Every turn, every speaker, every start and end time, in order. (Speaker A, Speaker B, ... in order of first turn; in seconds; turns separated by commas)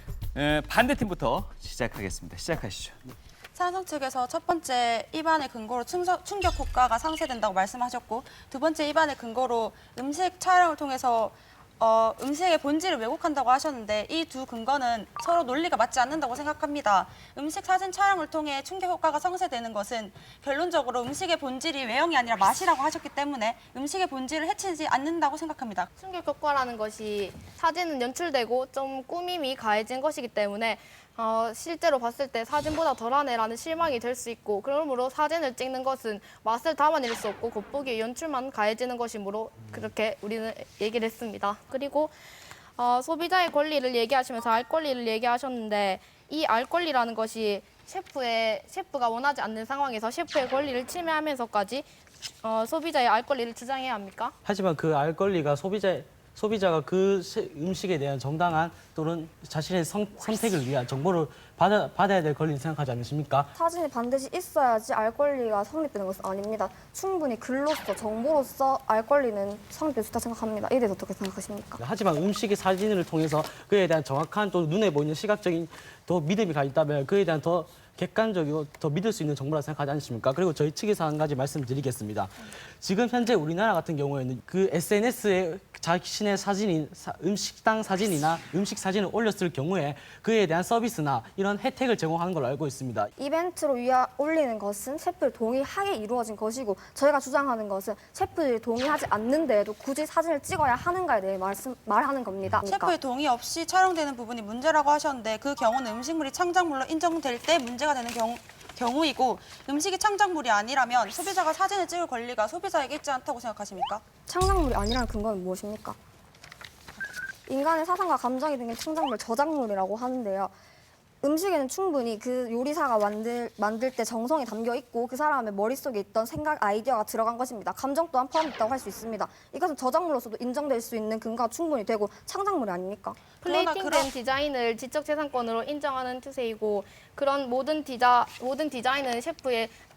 Speaker A: 0.3-3.0, Speaker B: 3.5-25.9, Speaker C: 26.0-42.1, Speaker C: 42.8-51.9, Speaker C: 52.4-54.3, Speaker D: 54.5-63.5, Speaker E: 63.6-71.8, Speaker D: 71.8-93.1, Speaker E: 93.2-102.9, Speaker B: 102.7-114.0, Speaker E: 114.3-116.0, Speaker E: 117.5-120.5, Speaker E: 121.2-133.2, Speaker B: 133.4-134.1, Speaker C: 133.4-139.7